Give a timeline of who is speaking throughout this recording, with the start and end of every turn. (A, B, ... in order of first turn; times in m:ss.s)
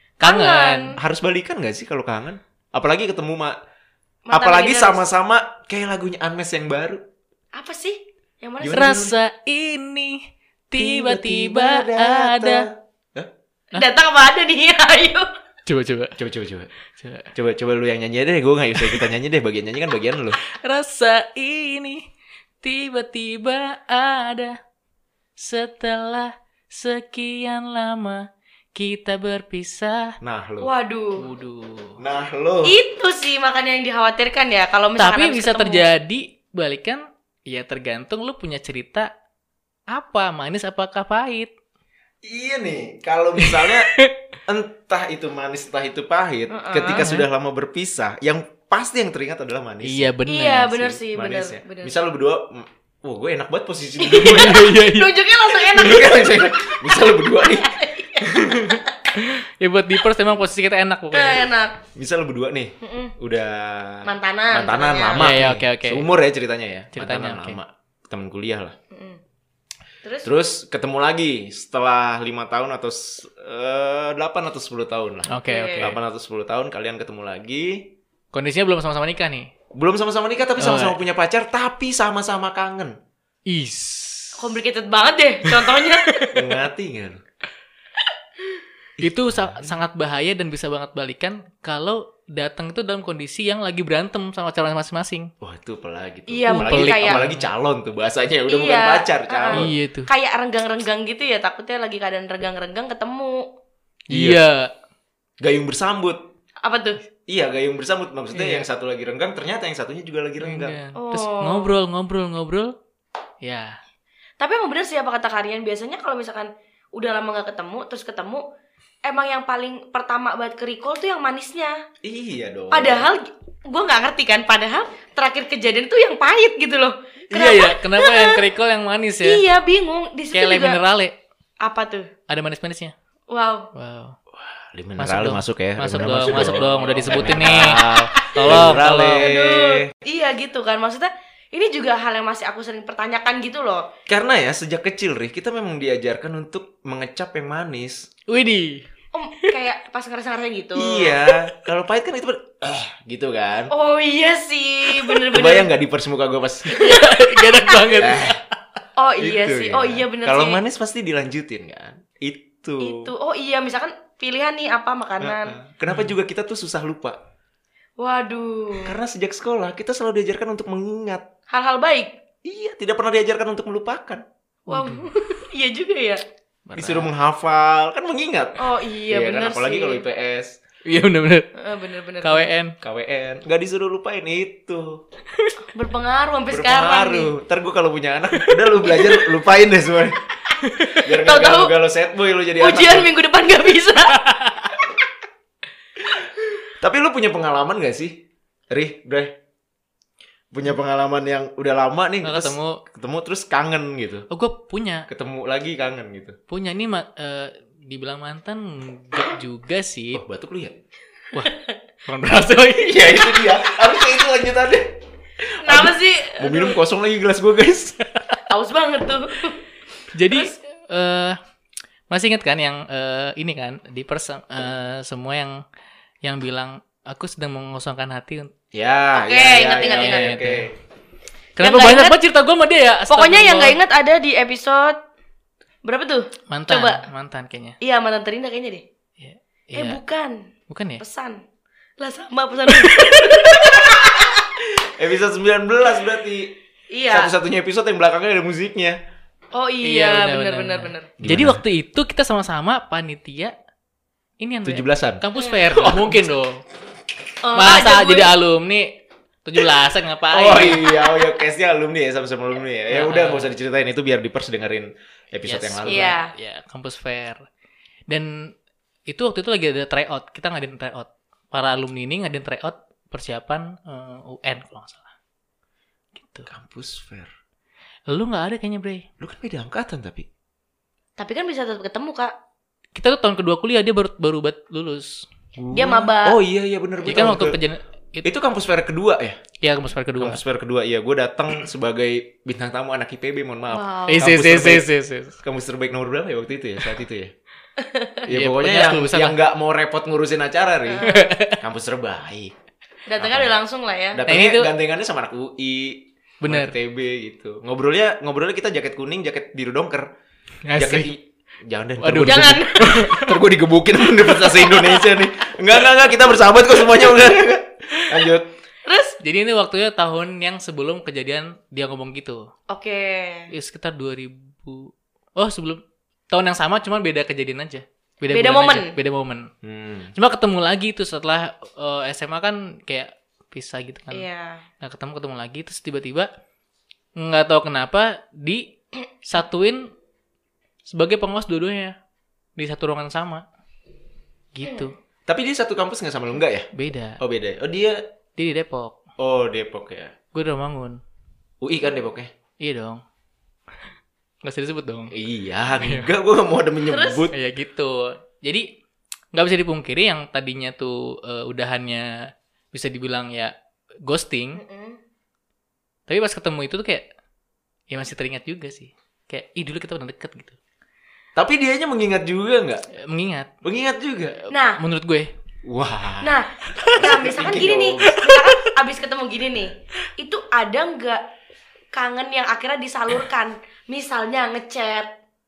0:00.2-0:01.0 A
0:00.2-0:01.0 B
0:01.0-0:03.6 C
0:04.3-0:05.0 B
0:04.3-0:07.0 C
0:07.5-0:09.1 B
0:08.6-0:09.1 C
0:08.7-0:12.6 A
0:10.8-0:13.3 C
0:13.7-0:15.3 B
0:15.7-0:16.2 A
0:16.2-0:16.7 C
0:17.0-0:17.3 A
0:17.3-0:20.4 C
0:18.8-0:19.0 A
0:20.4-0:22.1 A
0:22.6-0:24.6 A
0:25.4-0:30.2 A
0:30.2-0:30.7 C
0:30.6-0:31.3 B
0:31.2-0:32.0 A
0:32.0-0:32.8 C
0:32.6-0:35.9 B
0:35.0-0:39.1 A
0:39.9-0:41.5 A
0:42.2-0:43.9 C
0:43.4-0:44.2 A
0:44.5-0:50.1 C
0:46.5-0:47.0 B
0:47.0-0:47.3 A
0:49.8-0:51.0 A
0:50.3-0:51.9 B
0:51.0-0:54.6 C
0:54.0-0:58.9 B
0:54.1-0:55.3 A
0:55.7-0:57.8 C
0:58.3-0:58.6 C
0:58.8-1:01.5 A
1:01.1-1:01.8 B
1:02.0-1:08.8 C
1:02.8-1:03.1 B
1:04.1-1:05.3 B
1:05.2-1:06.0 A
1:06.9-1:07.6 A
1:08.9-1:09.2 B
1:10.2-1:17.8 C
1:15.3-1:16.0 A
1:15.5-1:15.9 B
1:18.3-1:19.5 A
1:19.8-1:23.0 C
1:20.6-1:21.0 A
1:23.5-1:24.6 A
1:24.4-1:26.3 B
1:25.5-1:26.3 A
1:26.3-1:27.2 C
1:29.0-1:29.8 C
1:29.0-1:35.3 A
1:35.4-1:39.7 C
1:36.3-1:37.2 B
1:36.5-1:37.5 A
1:38.5-1:43.5 B
1:39.5-1:40.1 A
1:44.1-1:44.4 C
1:44.1-1:44.7 A
1:45.4-1:46.2 C
1:46.6-1:47.0 B
1:47.3-1:50.8 C
1:48.3-1:48.6 A
1:50.4-1:52.8 A
1:51.0-1:51.8 B
1:53.4-1:53.8 A
1:54.4-1:58.4 B
1:59.0-2:01.8 B
2:02.0-2:03.1 C
2:02.7-2:08.5 B
2:07.3-2:09.4 A
2:09.2-2:10.8 B
2:10.3-2:11.2 A
2:11.6-2:12.1 B
2:12.3-2:12.9 A
2:13.3-2:13.7 B
2:13.7-2:14.2 A
2:14.5-2:19.9 C
2:15.0-2:19.3 A
2:18.7-2:23.9 B
2:24.1-2:28.1 C
2:28.3-2:28.9 A
2:29.1-2:31.2 B
2:30.8-2:33.7 C
2:33.7-2:35.7 B
2:34.9-2:35.2 A
2:35.3-2:36.7 C
2:36.7-2:38.4 A
2:36.7-2:38.1 B
2:38.0-2:38.4 C
2:39.0-2:40.6 B
2:39.2-2:43.1 C
2:42.8-2:45.6 B
2:45.2-2:47.2 C
2:45.9-2:46.1 A
2:48.0-2:49.0 B
2:48.8-2:51.3 C
2:51.5-2:52.1 B
2:52.4-2:54.2 C
2:54.7-2:55.1 A
2:54.7-2:56.2 B
2:56.7-2:57.1 A
2:56.8-3:00.6 C
2:58.6-3:00.0 B
3:00.8-3:01.5 A
3:01.6-3:02.5 B
3:02.2-3:02.8 A
3:02.8-3:05.0 C
3:05.7-3:07.3 B
3:06.5-3:10.2 C
3:08.9-3:09.2 B
3:10.5-3:11.7 B
3:10.6-3:11.0 A
3:11.0-3:13.1 C
3:12.6-3:14.5 B
3:16.8-3:18.2 C
3:18.7-3:19.3 C
3:20.5-3:24.3 C
3:22.2-3:22.8 A
3:24.3-3:25.1 A
3:25.1-3:26.4 C
3:26.5-3:30.2 A
3:30.1-3:30.8 C
3:32.1-3:33.4 A
3:32.8-3:34.9 C
3:35.4-3:38.0 C
3:35.6-3:36.8 B
3:38.5-3:39.6 B
3:40.1-3:41.4 A
3:42.1-3:45.6 A
3:46.2-3:48.5 A
3:48.7-3:50.7 C
3:49.2-3:50.4 B
3:49.9-3:50.7 A
3:51.6-3:53.8 A
3:51.6-3:52.2 B
3:53.1-3:55.0 B
3:55.8-3:57.1 B
3:56.5-3:57.8 A
3:57.8-3:58.8 B
3:59.2-4:00.0 A
3:59.8-4:00.5 B
4:00.7-4:01.0 A
4:01.0-4:01.4 B
4:02.0-4:04.4 B
4:02.7-4:03.8 A
4:04.7-4:06.5 C
4:06.9-4:07.3 B
4:07.1-4:09.0 C
4:09.5-4:11.1 B
4:09.8-4:13.6 A
4:11.2-4:11.6 C
4:14.4-4:16.6 A
4:14.6-4:15.2 C
4:15.4-4:15.8 B
4:15.7-4:16.2 C
4:17.4-4:18.3 B
4:17.6-4:20.9 A
4:20.3-4:26.2 C
4:22.9-4:23.5 A
4:25.4-4:27.5 A
4:25.9-4:26.3 B
4:28.1-4:28.5 A
4:29.1-4:35.1 A
4:36.2-4:36.5 A
4:36.5-4:37.3 C
4:38.1-4:39.1 A
4:39.2-4:40.3 C
4:41.2-4:42.3 B
4:43.0-4:45.3 A
4:45.6-4:47.6 C
4:45.7-4:46.4 B
4:47.0-4:48.3 A
4:48.2-4:49.4 C
4:49.6-4:50.4 A
4:50.2-4:54.9 C
4:53.7-4:54.2 B
4:54.1-4:55.4 A
4:55.4-4:57.3 C
4:57.8-4:58.2 B
4:58.3-5:02.5 C
4:58.3-4:59.4 A
5:00.9-5:01.4 B
5:01.0-5:01.6 A
5:03.1-5:04.2 B
5:03.2-5:03.6 C
5:04.1-5:10.1 C
5:04.3-5:04.7 A
5:06.4-5:06.8 A
5:10.6-5:11.1 A
5:10.8-5:18.5 C
5:12.0-5:13.4 A
5:12.2-5:12.8 B
5:18.9-5:19.2 B
5:19.2-5:22.5 A
5:22.7-5:23.5 B
5:23.5-5:29.5 A
5:28.3-5:29.0 B
5:29.6-5:30.1 C
5:30.2-5:34.3 A
5:34.1-5:34.6 B
5:34.8-5:36.3 A
5:37.2-5:38.7 A
5:39.2-5:39.9 A
5:40.9-5:42.0 A
5:42.6-5:43.4 A
5:44.5-5:45.0 A
5:45.3-5:48.0 C
5:46.7-5:47.2 A
5:48.4-5:49.0 A
5:49.2-5:50.2 C
5:50.3-5:51.0 A
5:51.6-5:52.3 C
5:52.6-5:53.0 A
5:54.4-5:55.1 A
5:55.1-5:57.3 C
5:55.8-5:56.1 A
5:56.9-5:57.3 B
5:57.3-5:58.7 A
5:59.3-6:03.5 A
6:04.0-6:04.6 A
6:04.6-6:05.0 B
6:06.1-6:07.1 A
6:07.9-6:10.6 A
6:11.4-6:12.8 C
6:12.9-6:13.5 A
6:13.6-6:14.4 C
6:14.5-6:15.3 A
6:14.5-6:14.8 B
6:15.6-6:16.3 C
6:16.2-6:21.2 B
6:16.7-6:17.0 A
6:16.9-6:18.2 C
6:18.2-6:18.6 A
6:21.9-6:25.1 B